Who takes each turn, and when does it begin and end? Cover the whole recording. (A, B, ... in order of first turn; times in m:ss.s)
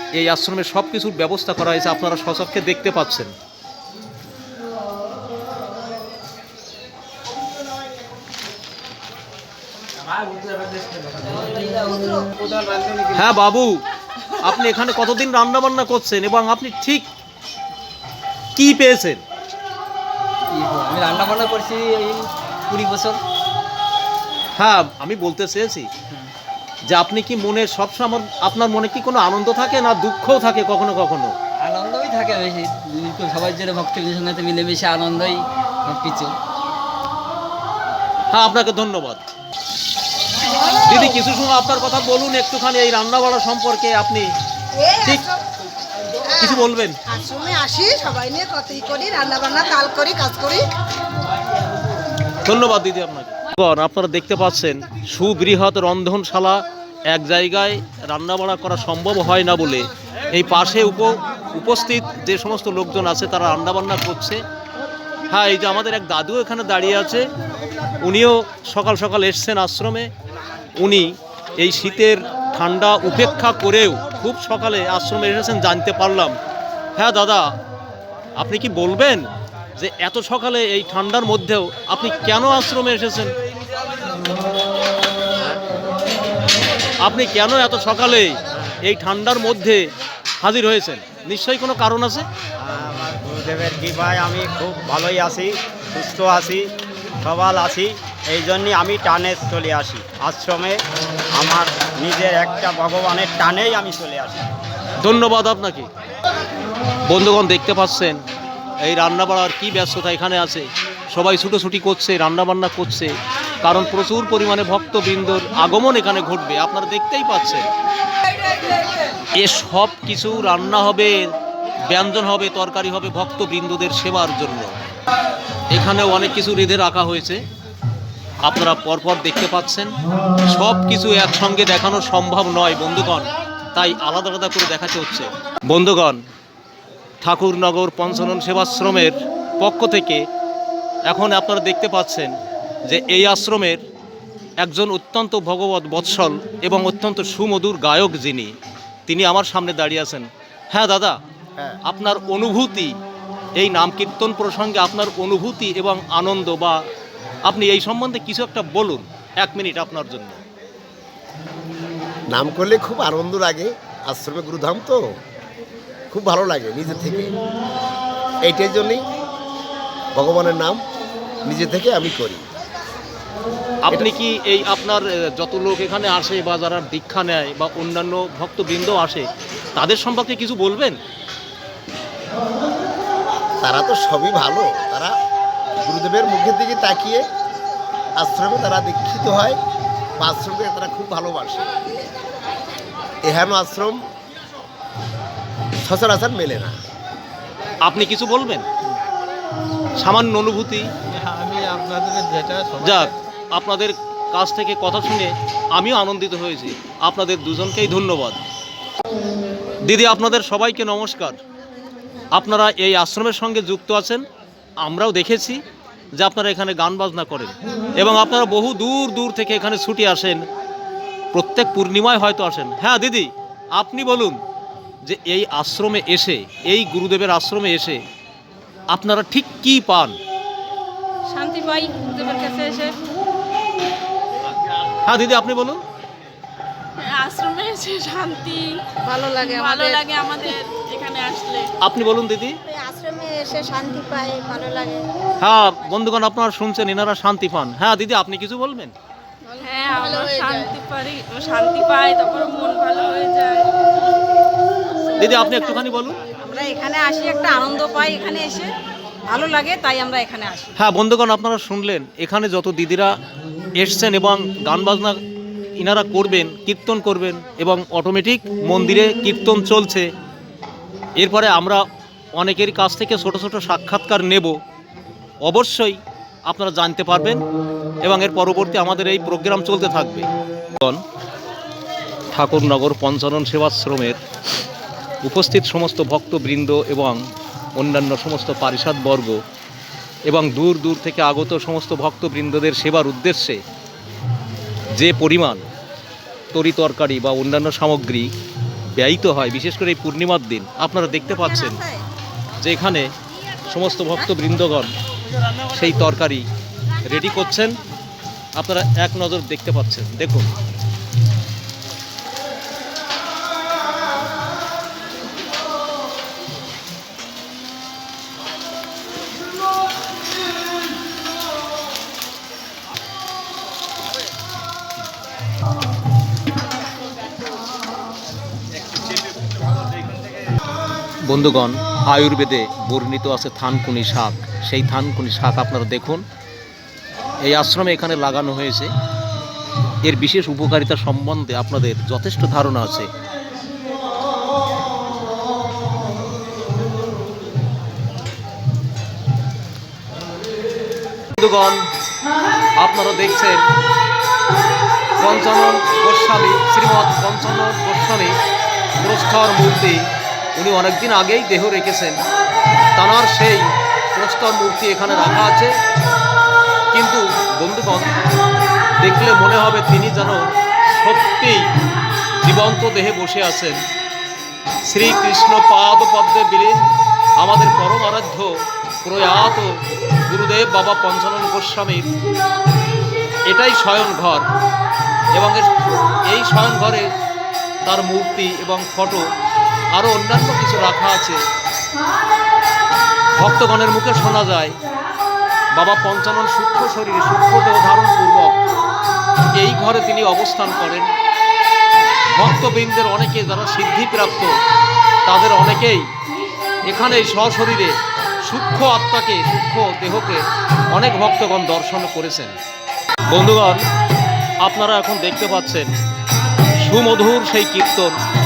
0:00.2-0:03.3 A
0:10.0-0:13.3 B
0:13.1-0:13.8 A
0:14.4-0:17.1 A
0:18.6-0:19.2 A
0:20.5-0:23.2 C
0:24.6-0:25.9 A
0:26.9-0:31.4 A
0:31.6-0:36.4 C
0:38.3-0:39.2 A
0:40.5-0:41.0 D
0:40.8-0:44.3 A
0:44.7-0:45.4 D
0:46.3-0:50.6 D
0:46.4-0:47.0 A
0:52.4-1:04.4 A
1:05.3-1:07.3 A
1:08.0-1:10.1 A
1:10.8-1:16.4 A
1:17.0-1:17.5 A
1:18.4-1:23.3 A
1:27.0-1:29.8 A
1:30.4-1:32.3 A
1:32.6-1:36.6 E
1:37.2-1:40.8 E
1:41.4-1:44.4 E
1:45.0-1:45.9 A
1:47.1-1:48.2 A
1:48.8-1:53.1 A
1:53.6-1:57.7 A
1:59.4-2:01.3 A
2:01.8-2:04.7 A
2:05.7-2:07.4 A
2:08.4-2:09.9 A
2:10.4-2:16.2 A
2:17.2-2:20.2 A
2:21.1-2:22.3 A
2:22.9-2:23.8 A
2:24.6-2:28.5 A
2:29.1-2:31.2 A
2:31.8-2:32.9 A
2:33.6-2:36.8 A
2:37.4-2:40.4 A
2:42.3-2:45.0 F
2:46.1-2:47.3 F
2:48.4-2:49.0 F
2:50.2-2:50.8 F
2:51.5-2:52.4 F
2:53.9-3:01.0 A
3:03.6-3:05.1 F
3:05.8-3:07.2 F
3:08.2-3:09.6 F
3:10.2-3:11.7 F
3:13.2-3:14.0 F
3:15.8-3:16.8 F
3:17.8-3:18.7 A
3:20.0-3:20.9 A
3:21.1-3:23.1 B
3:22.8-3:28.4 A
3:29.8-3:31.4 A
3:32.3-3:34.2 A
3:34.8-3:35.6 A
3:36.2-3:40.4 A
3:41.3-3:44.4 A
3:45.0-3:48.0 A
3:48.9-3:50.2 A
3:51.3-3:52.9 D
3:55.0-3:55.8 A
3:57.0-3:58.8 G
3:59.0-4:00.0 D
3:59.4-4:01.7 G
4:01.8-4:02.6 A
4:02.6-4:05.0 D
4:05.4-4:08.9 A
4:09.5-4:10.7 D
4:09.6-4:13.6 G
4:15.1-4:15.8 D
4:15.2-4:16.2 A
4:16.4-4:18.7 D
4:19.3-4:20.7 D
4:20.8-4:23.1 A
4:23.8-4:25.2 A
4:25.8-4:30.1 A
4:31.2-4:31.8 A
4:32.4-4:34.6 A
4:35.4-4:37.4 A
4:38.0-4:41.0 A
4:42.3-4:44.2 A
4:45.2-4:47.2 A
4:47.8-4:49.4 A
4:50.3-4:53.6 A
4:55.0-4:55.6 A
4:56.5-4:58.3 A
4:59.0-5:01.8 A
5:01.2-5:02.0 D
5:02.6-5:03.1 A
5:03.7-5:04.9 A
5:05.7-5:06.4 A
5:07.0-5:07.8 A
5:08.6-5:10.5 A
5:31.2-5:36.2 A
5:37.4-5:38.9 A
5:40.0-5:43.1 A
5:51.4-5:51.8 A
5:52.8-5:53.6 A
5:55.2-5:58.4 A
5:59.0-6:00.0 A
6:00.6-6:02.2 A
6:03.0-6:05.7 A
6:06.9-6:08.1 A
6:09.0-6:11.7 A
6:12.4-6:13.8 A
6:14.9-6:16.8 A
6:17.4-6:18.5 A
6:19.0-6:19.7 A
6:20.3-6:22.1 A
6:23.5-6:24.4 A
6:25.3-6:25.8 A
6:26.3-6:27.1 A
6:27.8-6:29.2 A
6:29.9-6:31.4 A
6:33.4-6:34.8 A
6:35.7-6:38.6 A
6:39.6-6:41.1 A
6:42.4-6:44.5 A
6:45.2-6:46.1 A
6:46.9-6:47.9 A
6:48.4-6:52.6 A
6:53.3-6:53.8 A
6:54.6-6:55.9 A
6:56.8-6:58.1 A